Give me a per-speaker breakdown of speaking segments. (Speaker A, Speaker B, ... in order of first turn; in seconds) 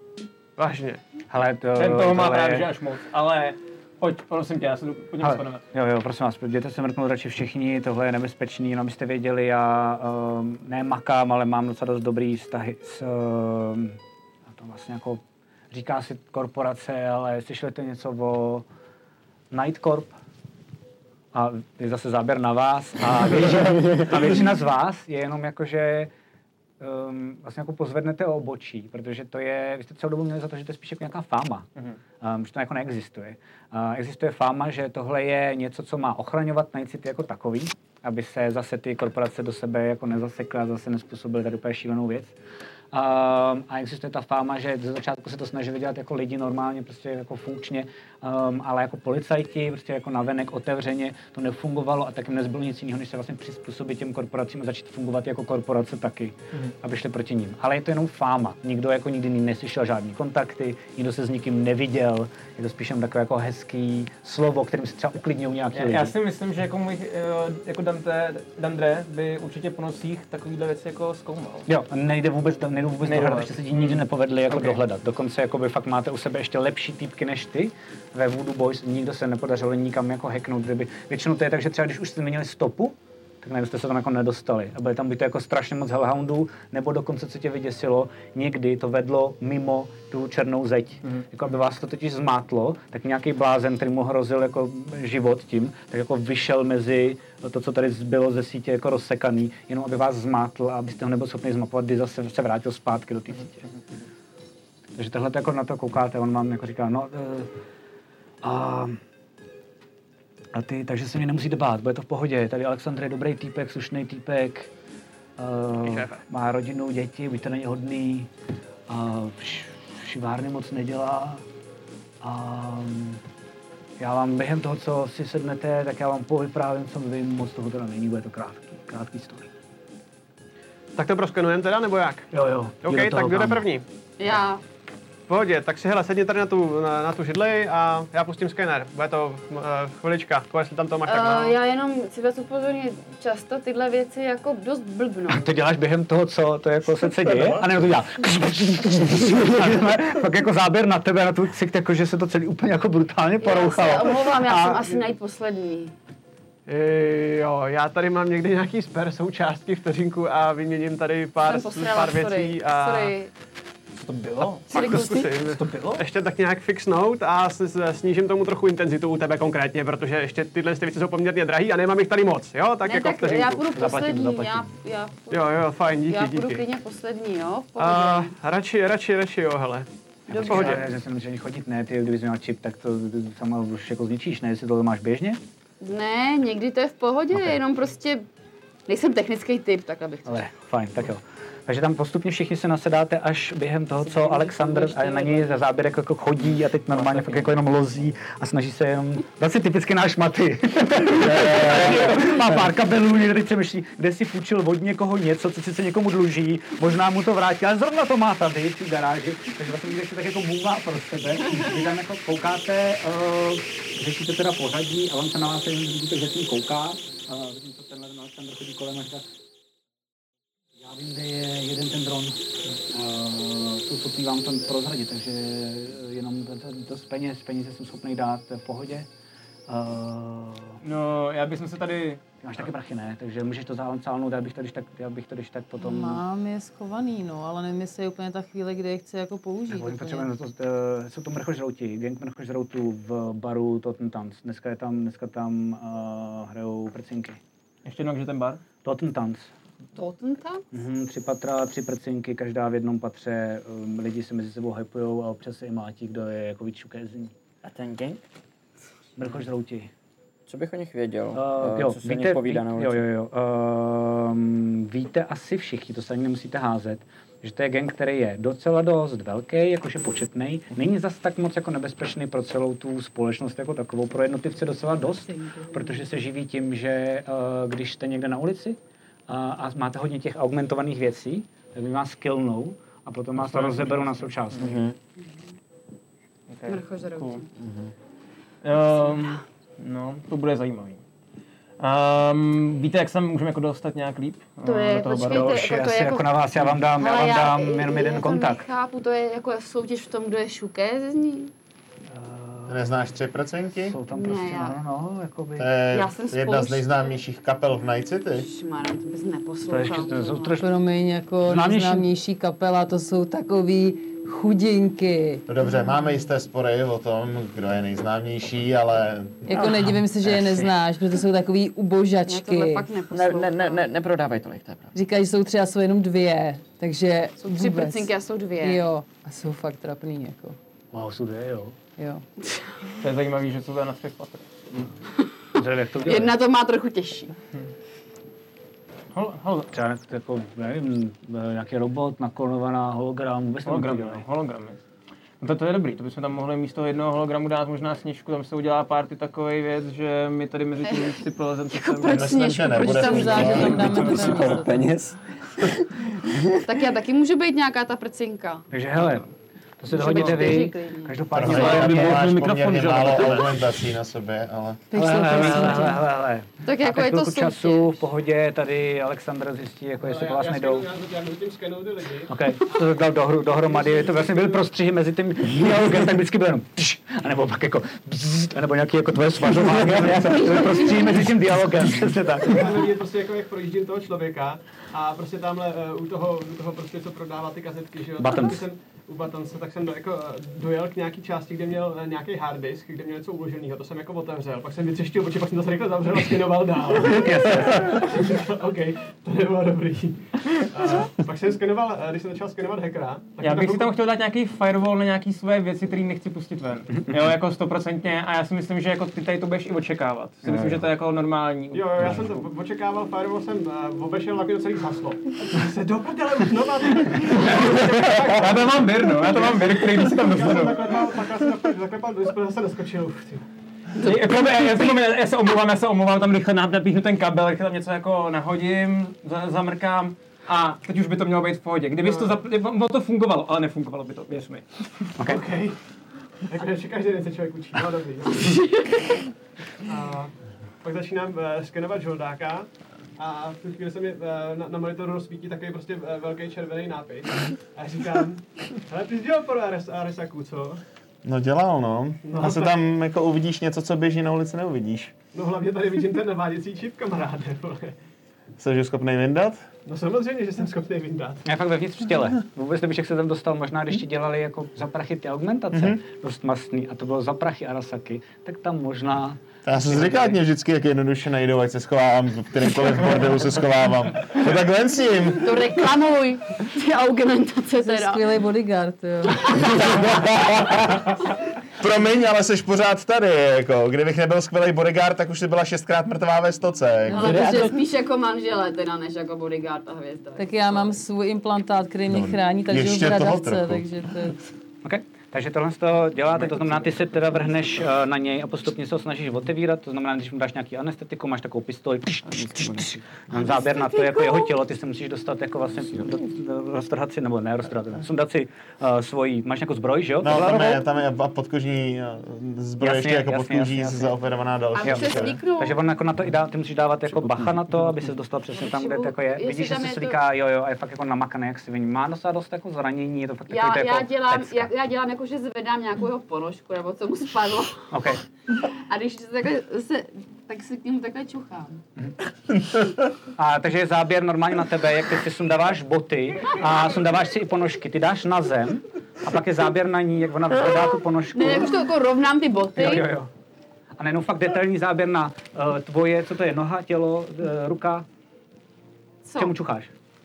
Speaker A: 0.6-1.0, 130.9-132.3, 132.8-133.8, 135.3-141.6, 156.7-163.1, 164.7-173.6, 175.3-176.6, 177.8-179.9, 180.4-180.8, 370.0-372.3, 373.6-374.6, 382.5-403.9, 411.7-418.1, 419.9-423.4, 432.0-432.3, 435.2-435.8, 436.4-438.6, 439.9-450.8, 452.2-452.8, 455.3-457.9, 459.9-461.4
Speaker B: 1.3-2.7, 5.2-14.0, 14.5-15.2, 15.7-18.6, 19.5-20.1, 21.3-26.1, 26.8-31.7, 32.2-42.3, 42.9-66.1, 71.7-103.6, 105.0-107.5, 108.4-109.0, 110.5-114.7, 115.4-118.3, 118.9-121.4, 122.2-123.2, 124.0-129.5, 132.3-133.7, 145.3-155.0, 164.0-166.0, 173.7-174.7, 180.3-185.4, 190.2-219.2, 220.8-229.1, 229.7-230.8, 232.4-236.2, 239.7-247.4, 248.8-249.5, 250.7-257.3, 259.2-259.9, 261.3-284.8, 295.1-298.6, 302.1-303.0, 303.7-305.8, 309.7-310.7, 311.4-312.1, 330.9-331.8, 335.5-336.4, 339.7-344.2, 358.7-359.2, 359.8-362.2, 364.9-370.9, 372.3-382.6, 388.2-388.6, 397.2-398.0, 410.5-410.8, 461.4-470.4, 494.8-510.8, 512.8-514.1, 514.8-524.7, 527.9-528.2, 533.4-541.8, 542.8-543.3, 544.0-548.0, 549.4-549.9
Speaker C: 1.8-5.6, 65.7-71.6, 73.0-74.8, 115.8-116.2, 196.9-197.4, 201.6-202.3, 230.8-232.2, 247.8-248.6, 283.4-284.8, 286.5-287.4, 288.6-291.0, 291.8-295.6, 333.0-334.9, 339.1-339.7, 343.6-344.8, 345.4-352.4, 353.8-354.6, 361.4-363.6, 403.4-412.2, 417.4-420.8, 424.0-435.2
Speaker D: 134.2-134.6, 141.1-145.5, 153.4-155.9, 161.4-163.3, 164.7-165.3, 172.8-178.3, 180.3-180.8, 185.8-188.2, 188.9-190.5, 194.0-195.5, 249.9-250.7, 286.6-287.5, 294.6-296.4, 296.9-301.5, 304.1-304.8, 305.9-307.2, 308.3-310.5, 322.2-323.9, 327.4-328.8, 332.4-332.9, 336.0-337.3, 350.8-354.0, 356.6-358.7, 359.9-361.2, 366.6-368.0, 475.4-478.3, 479.4-480.0, 487.1-491.0, 514.8-515.8, 518.5-520.2, 523.5-527.9, 528.6-531.8, 541.3-543.1, 549.2-549.5
Speaker E: 147.2-147.7, 201.2-202.4, 302.7-304.0, 305.6-308.5, 315.5-319.5, 352.1-354.3, 361.3-364.8, 451.2-455.1, 458.6-459.7, 465.7-466.0, 469.6-475.6, 479.8-481.1, 481.8-487.6, 492.1-493.9, 510.2-515.4
Speaker F: 235.8-240.3, 310.6-315.4, 319.5-322.9, 324.9-330.6, 332.0-332.2, 352.7-354.7, 364.9-366.0, 477.8-479.6, 490.4-494.4
Speaker G: 257.6-258.2, 260.5-263.1, 284.6-284.9, 287.6-287.9, 319.6-320.7, 323.1-324.9, 354.3-355.7, 356.3-356.6, 487.2-487.7, 502.3-503.0